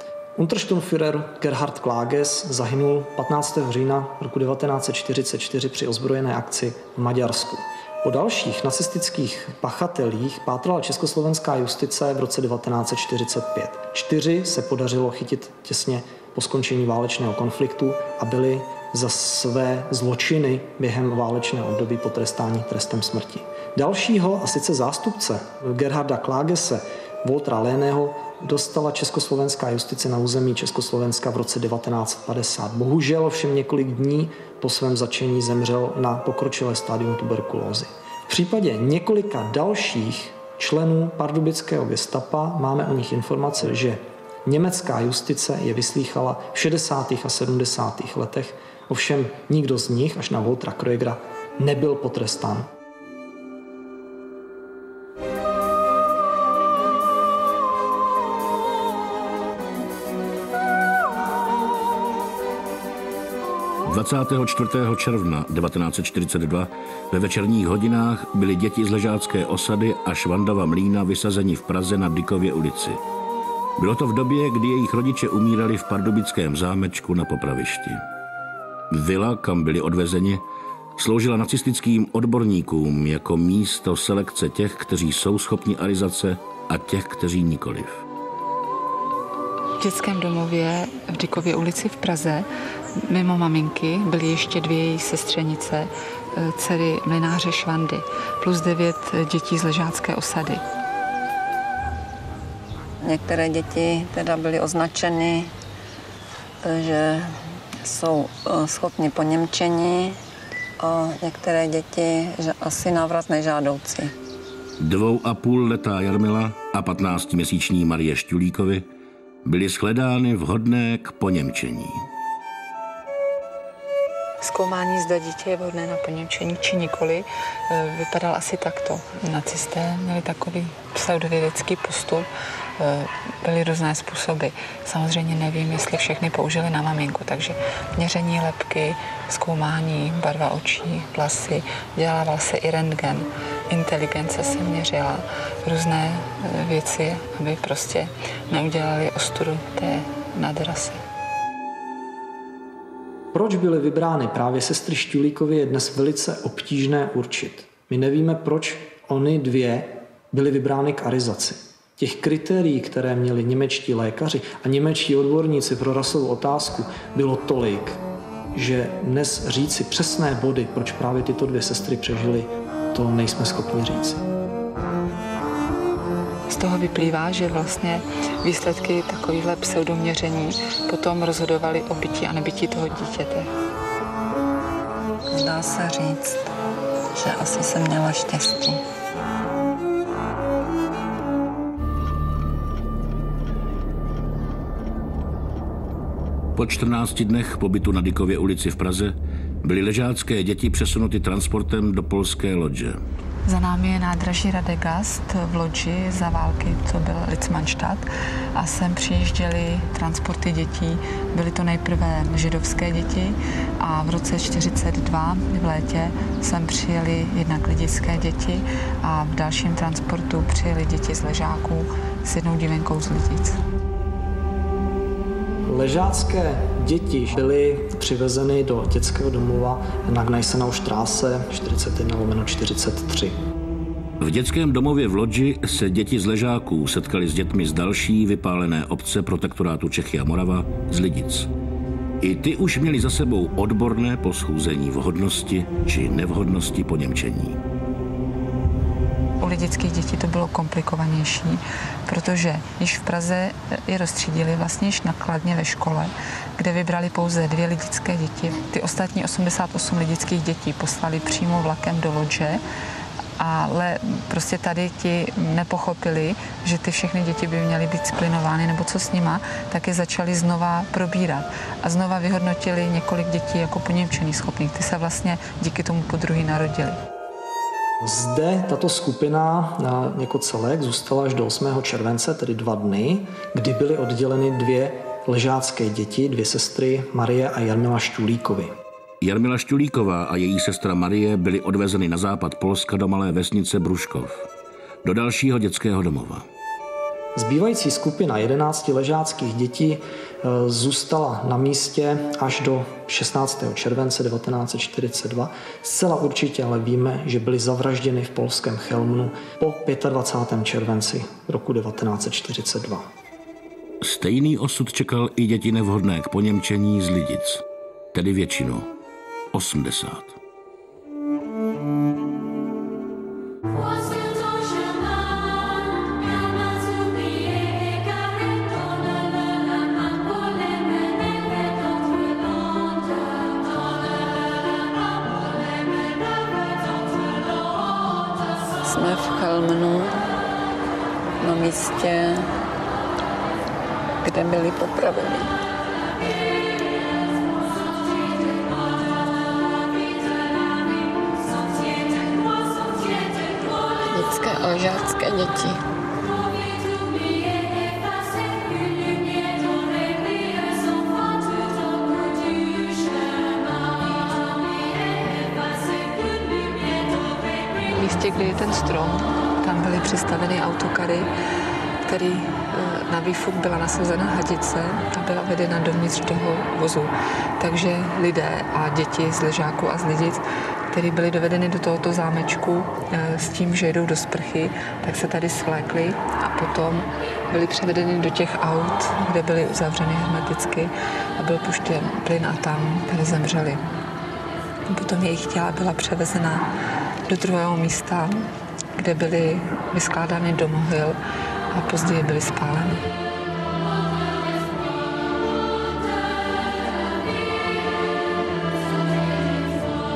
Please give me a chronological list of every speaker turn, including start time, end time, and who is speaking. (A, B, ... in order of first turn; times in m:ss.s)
0:00.4-0:52.7 A
1:03.9-1:13.0 B
1:13.8-1:18.0 B
1:18.9-1:20.4 B
1:21.0-1:28.0 B
1:29.8-1:32.4 C
1:33.0-1:40.6 C
1:43.0-1:45.5 D
1:46.6-1:50.2 D
1:50.8-1:54.1 D
1:54.8-1:58.9 B
1:59.4-2:02.1 B
2:04.4-2:12.3 C
2:12.8-2:31.0 C
2:33.3-2:48.0 A
2:48.5-2:54.2 A
2:56.5-3:03.5 C
3:05.3-3:06.5 D
3:07.1-3:08.8 D
3:16.6-3:23.0 B
3:23.5-3:43.6 C
3:45.7-3:53.4 A
3:54.2-4:01.5 B
4:02.2-4:07.6 B
4:09.4-4:22.6 C
4:23.4-4:37.0 C
4:38.0-4:48.7 A
4:49.2-4:54.5 B
4:55.0-4:56.4 B
4:57.4-5:13.1 A
5:14.0-5:17.6 B
5:18.1-5:18.9 B
5:19.5-5:20.4 B
5:38.8-5:40.2 D
5:41.4-5:42.5 D
5:44.2-5:45.5 D
5:54.1-5:55.8 D
6:07.9-6:11.3 C
6:12.0-6:33.8 C
6:34.9-6:36.6 C
6:37.3-6:41.2 C
6:41.7-6:43.0 C